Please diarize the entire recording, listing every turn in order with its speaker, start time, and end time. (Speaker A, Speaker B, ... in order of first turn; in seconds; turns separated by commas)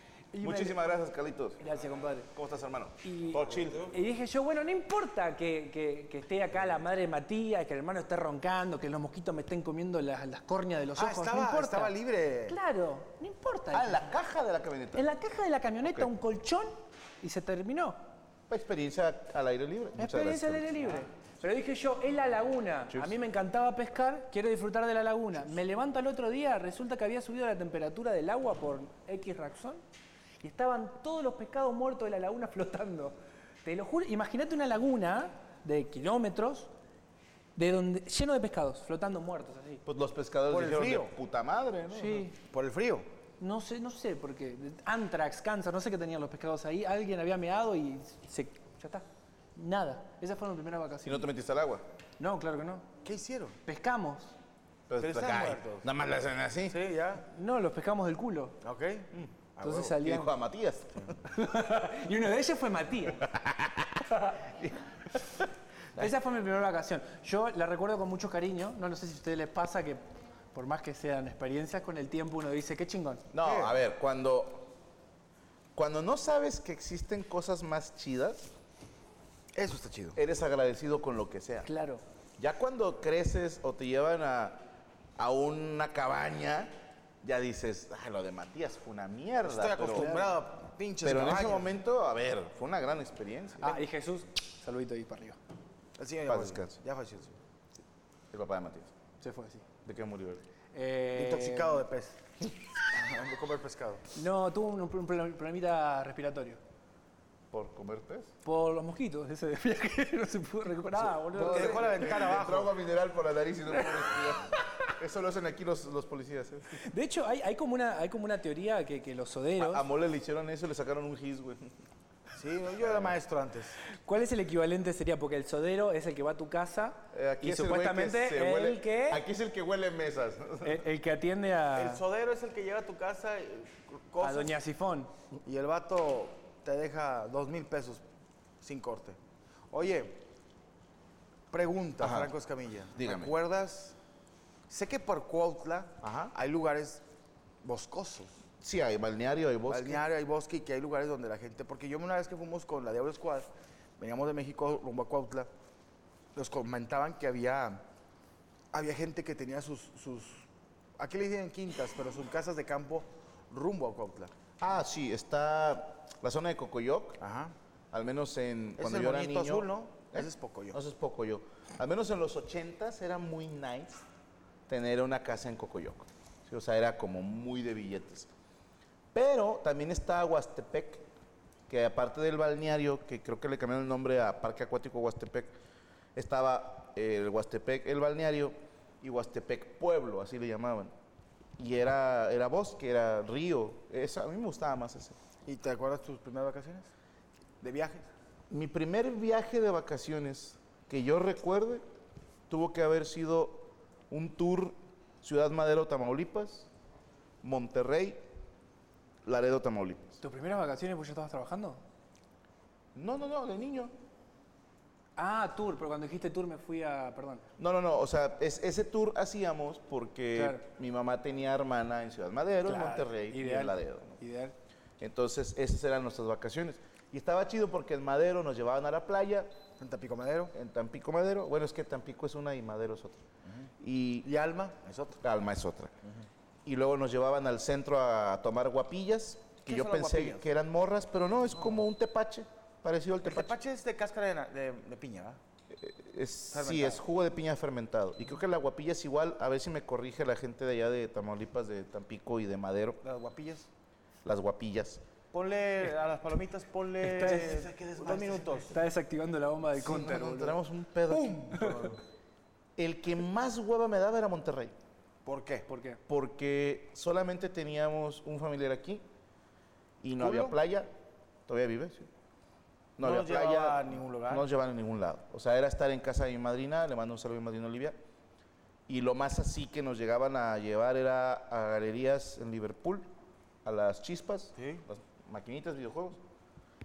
Speaker A: 0.3-0.8, Speaker B: 0.4-1.6, Speaker A: 1.6-2.3, Speaker B: 2.3-4.0, Speaker A: 3.0-11.9, Speaker C: 11.0-12.6, Speaker A: 12.4-14.1, Speaker B: 13.7-15.1, Speaker A: 14.9-18.0, Speaker B: 15.8-16.1, Speaker B: 18.5-20.9, Speaker A: 20.0-29.8, Speaker B: 22.9-23.1, Speaker A: 30.4-36.7, Speaker A: 37.5-39.8, Speaker B: 39.9-42.3, Speaker C: 40.5-41.1, Speaker A: 41.9-42.3, Speaker C: 42.4-43.0, Speaker A: 43.4-51.3, Speaker B: 51.0-51.8, Speaker A: 52.2-52.9, Speaker C: 53.0-53.6, Speaker A: 53.6-54.3, Speaker B: 54.9-56.8, Speaker C: 55.0-55.9, Speaker C: 56.7-57.2, Speaker A: 57.3-58.6, Speaker C: 58.6-60.0, Speaker A: 59.6-60.3, Speaker B: 59.8-61.1, Speaker A: 61.2-63.3, Speaker B: 63.2-66.1, Speaker A: 66.0-70.0, Speaker A: 70.5-73.2, Speaker B: 73.3-74.7, Speaker C: 73.4-73.8, Speaker B: 75.7-78.5, Speaker C: 79.5-80.2, Speaker B: 80.2-81.7, Speaker A: 81.6-82.0, Speaker B: 82.4-84.6, Speaker B: 85.2-90.3, Speaker C: 89.4-91.7, Speaker A: 90.0-90.3, Speaker B: 91.0-93.8, Speaker A: 93.6-95.4, Speaker C: 96.0-97.3, Speaker B: 96.2-96.8, Speaker B: 98.3-98.9, Speaker A: 99.2-99.6, Speaker B: 99.8-100.4, Speaker A: 100.7-101.8, Speaker C: 101.1-102.2, Speaker C: 102.9-104.0, Speaker A: 104.1-106.6, Speaker B: 107.5-108.3, Speaker A: 108.4-112.2, Speaker B: 111.0-116.8, Speaker C: 111.3-112.7, Speaker A: 116.7-119.9, Speaker B: 119.6-121.7, Speaker C: 122.3-123.8, Speaker B: 122.8-123.2, Speaker A: 124.0-129.2, Speaker B: 127.1-130.8, Speaker A: 130.6-132.0, Speaker C: 131.7-134.5, Speaker A: 134.2-135.1, Speaker C: 135.4-138.0, Speaker C: 138.6-139.2, Speaker C: 139.7-140.2, Speaker C: 141.5-143.9, Speaker B: 142.0-142.3, Speaker B: 142.9-143.3, Speaker C: 144.7-147.0, Speaker B: 146.0-146.3, Speaker C: 147.6-148.4, Speaker B: 148.6-150.0, Speaker C: 149.7-155.5, Speaker C: 156.3-157.8, Speaker C: 158.7-160.5, Speaker C: 161.0-164.3, Speaker B: 164.6-167.2, Speaker C: 167.2-167.5, Speaker B: 167.9-174.0, Speaker C: 168.8-170.8, Speaker B: 174.7-178.3, Speaker B: 179.1-181.1, Speaker B: 181.7-185.5, Speaker B: 186.1-190.9, Speaker B: 191.6-195.2, Speaker C: 195.4-196.9, Speaker C: 197.6-198.1, Speaker B: 198.5-201.8, Speaker B: 202.5-206.7, Speaker B: 207.4-208.2, Speaker B: 209.2-210.2, Speaker A: 210.2-211.8, Speaker B: 212.9-213.9, Speaker A: 215.2-217.4, Speaker B: 217.6-224.2, Speaker A: 220.3-220.6, Speaker A: 222.6-224.5, Speaker B: 225.0-229.5, Speaker C: 229.8-230.5, Speaker B: 230.5-233.2, Speaker B: 233.8-234.3, Speaker C: 234.2-235.2, Speaker B: 235.2-235.9, Speaker B: 236.6-243.5, Speaker C: 239.7-240.4, Speaker C: 243.2-245.4, Speaker B: 245.7-253.0, Speaker C: 246.5-247.0, Speaker C: 253.0-253.7, Speaker B: 254.2-255.0, Speaker C: 255.3-258.8, Speaker A: 257.0-260.6, Speaker B: 259.7-261.9, Speaker C: 261.1-262.0, Speaker B: 262.8-264.7, Speaker C: 265.2-265.7, Speaker A: 265.7-266.0, Speaker B: 266.1-269.0, Speaker B: 270.0-270.9, Speaker C: 270.2-270.6, Speaker B: 271.5-272.1, Speaker B: 273.0-278.0, Speaker C: 273.0-274.4, Speaker B: 278.9-283.1, Speaker B: 283.6-286.2, Speaker C: 284.6-284.8